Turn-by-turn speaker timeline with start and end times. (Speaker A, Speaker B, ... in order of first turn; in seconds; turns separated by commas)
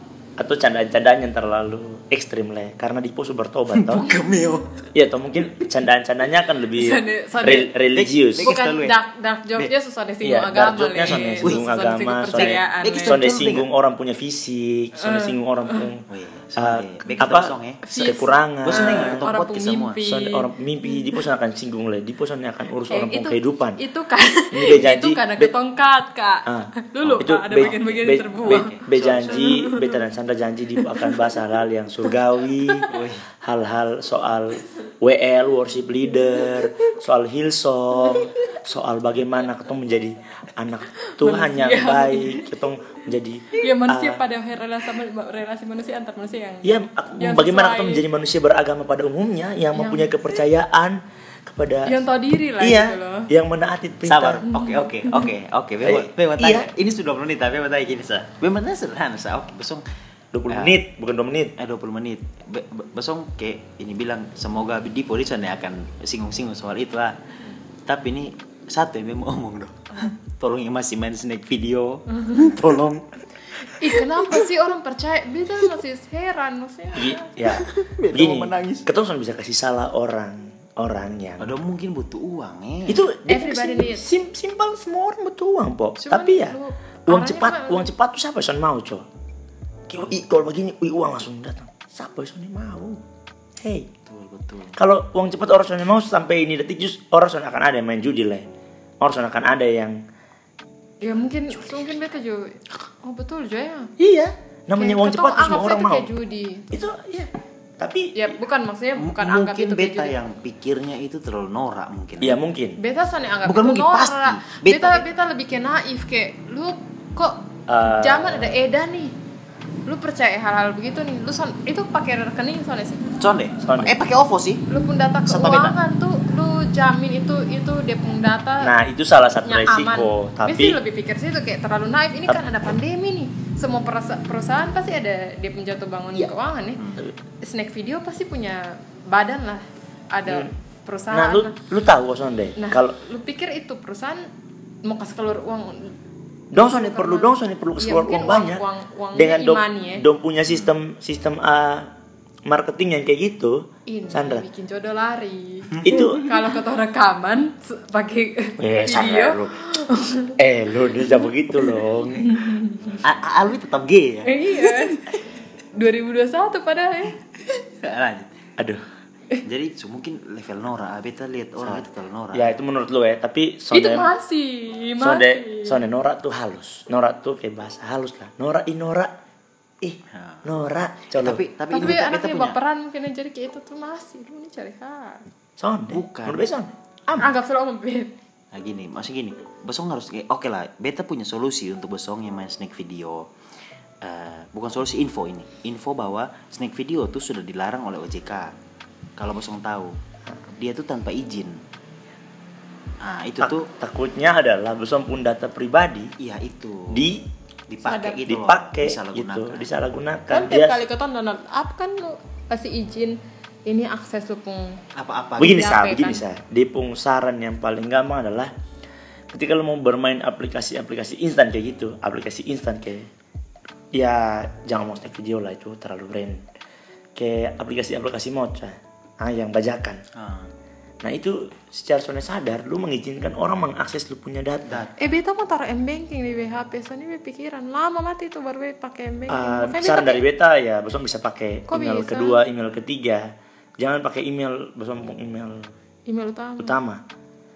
Speaker A: 0.4-4.1, Speaker B: 3.7-4.9, Speaker A: 4.9-8.5, Speaker C: 6.7-7.7, Speaker B: 7.5-8.9, Speaker C: 8.4-13.2, Speaker A: 10.2-19.3, Speaker B: 11.1-11.6, Speaker B: 12.3-13.7, Speaker C: 14.9-15.9, Speaker B: 16.1-17.9, Speaker C: 17.8-21.1, Speaker B: 18.6-20.0, Speaker A: 20.0-23.8, Speaker C: 22.9-30.0, Speaker A: 24.5-25.5, Speaker A: 26.4-32.9, Speaker B: 27.0-29.6, Speaker C: 30.8-31.2, Speaker B: 32.9-33.3, Speaker A: 33.4-44.2, Speaker C: 41.0-42.4, Speaker C: 43.5-48.0, Speaker A: 46.6-52.0, Speaker C: 49.7-50.1, Speaker C: 51.8-53.3, Speaker A: 52.6-54.5, Speaker B: 54.0-59.8, Speaker C: 54.5-55.2, Speaker A: 55.8-56.7, Speaker A: 60.3-61.5, Speaker B: 60.5-60.8, Speaker B: 61.6-67.2, Speaker B: 67.8-73.0, Speaker C: 73.6-77.3, Speaker B: 74.0-74.3, Speaker A: 76.9-81.5, Speaker B: 77.5-78.9, Speaker B: 81.4-83.0, Speaker A: 82.9-89.1, Speaker C: 83.3-84.0, Speaker C: 86.0-87.9, Speaker A: 89.9-93.0, Speaker A: 93.6-93.9, Speaker B: 94.0-94.8, Speaker A: 94.8-98.5, Speaker A: 99.0-100.0, Speaker C: 101.0-103.9, Speaker A: 104.0-106.1, Speaker C: 104.8-106.7, Speaker A: 106.7-108.3, Speaker C: 108.1-110.2, Speaker B: 109.0-112.4, Speaker A: 112.2-112.8, Speaker C: 112.8-119.2, Speaker B: 113.4-115.0, Speaker A: 117.7-118.6, Speaker C: 119.8-123.2, Speaker B: 123.2-124.6, Speaker A: 123.6-123.9, Speaker C: 124.7-128.7, Speaker B: 125.3-125.7, Speaker A: 128.6-130.8, Speaker C: 129.4-136.8, Speaker B: 136.1-137.0, Speaker C: 137.4-141.6, Speaker A: 141.1-143.0, Speaker C: 142.6-144.3, Speaker C: 144.8-145.9, Speaker A: 146.5-151.9, Speaker C: 146.5-150.1, Speaker B: 150.5-150.7, Speaker A: 152.4-154.4, Speaker C: 153.9-160.4, Speaker B: 155.8-156.2, Speaker A: 155.8-156.2, Speaker A: 158.6-159.6, Speaker A: 160.4-162.5, Speaker C: 162.2-163.0, Speaker B: 163.0-164.9, Speaker C: 164.2-165.2, Speaker C: 165.7-167.2, Speaker B: 167.8-168.4, Speaker B: 169.4-172.6, Speaker A: 171.6-174.1, Speaker C: 173.7-175.8, Speaker A: 175.0-179.1, Speaker A: 179.8-181.4, Speaker B: 180.1-180.5, Speaker B: 181.1-182.6, Speaker C: 181.7-185.2, Speaker A: 185.6-187.3, Speaker B: 185.9-186.5, Speaker C: 187.2-188.1, Speaker B: 188.5-193.3, Speaker B: 194.0-198.5, Speaker B: 199.2-199.9, Speaker B: 200.5-201.6, Speaker B: 203.0-203.7, Speaker A: 203.4-206.1, Speaker B: 206.2-207.1, Speaker A: 206.9-207.2, Speaker B: 207.7-209.7, Speaker C: 207.8-208.2, Speaker A: 208.2-210.8, Speaker C: 210.3-214.8, Speaker B: 214.9-215.7, Speaker A: 215.4-218.5, Speaker C: 215.4-216.2, Speaker A: 219.3-223.1, Speaker A: 223.9-226.4, Speaker A: 227.1-230.0, Speaker B: 230.1-230.5, Speaker A: 231.0-234.8, Speaker B: 234.7-234.9, Speaker C: 235.0-240.2, Speaker A: 239.3-243.2, Speaker C: 241.7-242.4, Speaker A: 243.8-245.7, Speaker C: 246.1-246.8, Speaker A: 246.6-247.0